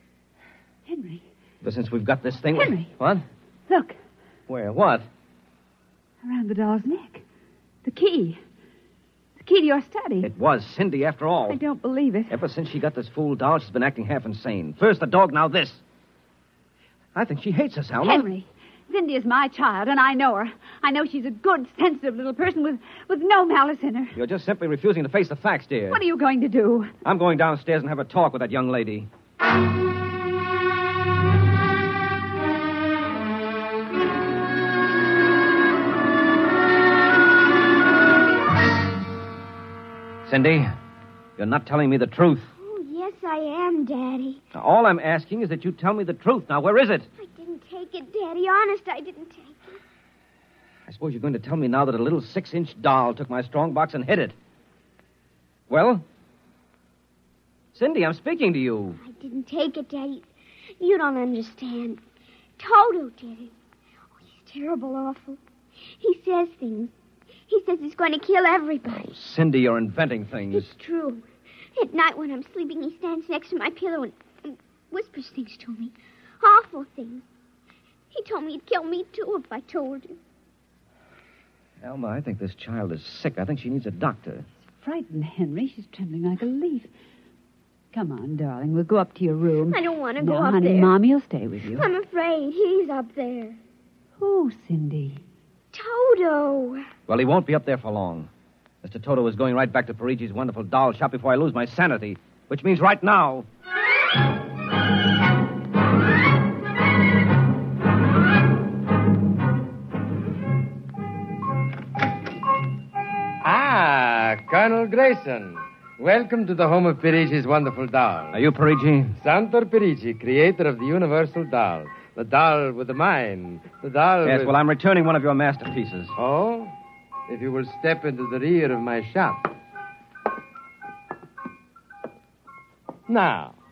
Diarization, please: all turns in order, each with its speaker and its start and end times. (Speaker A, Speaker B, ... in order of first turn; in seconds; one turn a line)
Speaker A: 0.9-1.2
Speaker B: 1.6-3.2
Speaker A: 2.5-2.9
Speaker A: 3.7-4.0
Speaker B: 4.5-5.0
Speaker A: 6.2-7.2
Speaker A: 7.8-8.4
Speaker A: 9.4-10.3
Speaker B: 10.2-11.6
Speaker A: 11.5-12.3
Speaker B: 12.3-15.8
Speaker B: 17.1-18.2
Speaker A: 18.0-24.1
Speaker B: 24.1-26.0
Speaker A: 25.9-26.9
Speaker B: 27.0-29.1
Speaker B: 40.2-40.7
Speaker B: 41.4-42.5
Speaker C: 42.6-44.4
Speaker B: 44.5-47.1
Speaker C: 47.2-49.8
Speaker B: 50.9-54.3
Speaker B: 55.7-56.0
Speaker B: 57.7-59.0
Speaker C: 59.0-60.3
Speaker C: 60.8-62.0
Speaker C: 62.6-63.5
Speaker C: 64.2-65.4
Speaker C: 66.0-66.9
Speaker C: 67.5-69.1
Speaker B: 68.9-70.7
Speaker C: 70.5-77.2
Speaker C: 78.1-80.2
Speaker B: 81.8-84.5
Speaker A: 84.8-86.9
Speaker A: 87.9-91.9
Speaker C: 89.7-90.9
Speaker C: 91.7-93.6
Speaker A: 94.2-95.2
Speaker C: 95.7-96.9
Speaker B: 97.1-98.3
Speaker B: 98.8-103.5
Speaker D: 113.4-118.4
Speaker B: 118.3-119.2
Speaker D: 119.2-124.5
Speaker B: 124.2-126.1
Speaker D: 126.2-126.7
Speaker D: 127.3-129.5
Speaker D: 133.1-133.6